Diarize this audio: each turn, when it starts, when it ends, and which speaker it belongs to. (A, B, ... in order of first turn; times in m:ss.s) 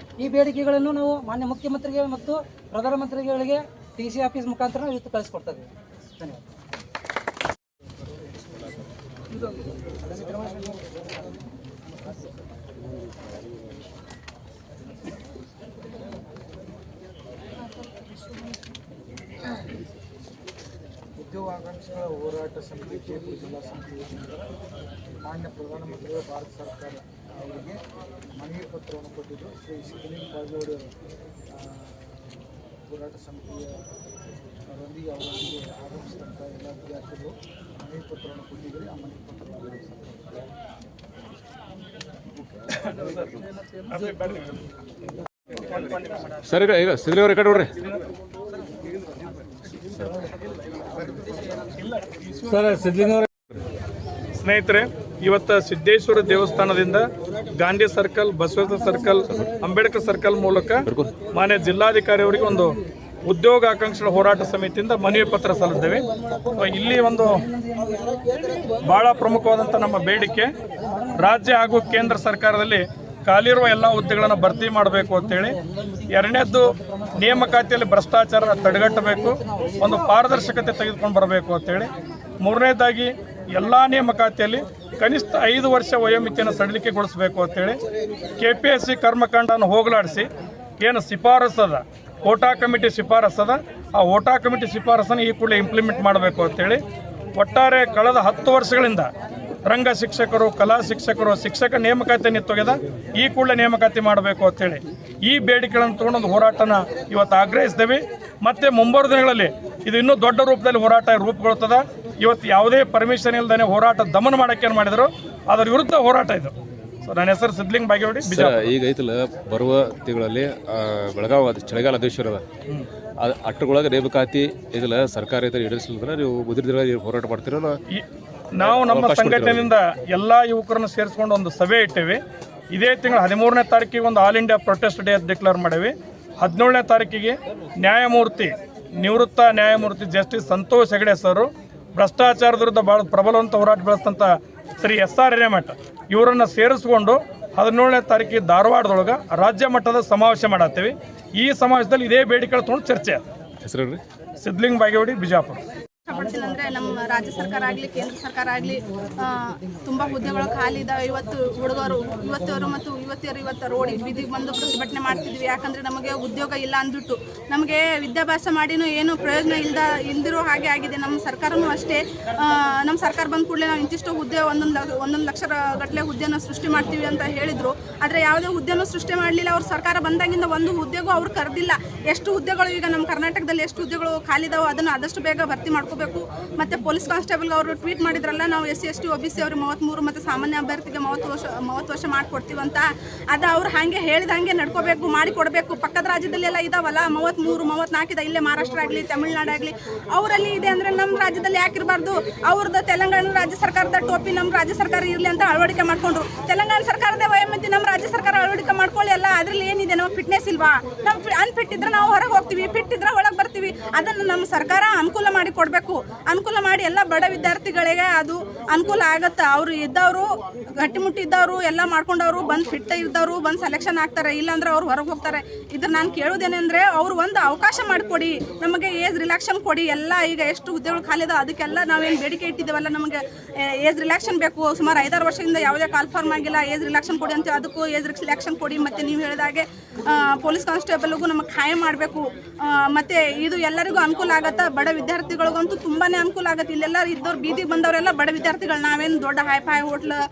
0:00.2-0:06.4 A
0:21.2-0:24.5 B
0:25.2-0:27.8 B
0:28.4-0:30.9 B
0:31.6-0:32.3 B
0:32.9-0:33.8 B
0:34.7-0:40.0 B
0:46.4-0:47.7 C
0:52.6-0:53.2 D
0:54.4-1:07.4 D
1:00.9-1:01.2 C
1:08.8-1:10.5 D
1:11.2-1:27.8 D
1:28.4-1:36.8 D
1:37.3-1:39.1 D
1:39.6-1:58.6 D
1:58.2-2:02.4 C
2:03.2-2:07.8 C
2:07.9-2:33.2 D
2:08.6-2:09.7 C
2:33.6-2:34.0 C
2:34.4-2:35.6 D
2:36.1-4:10.2 E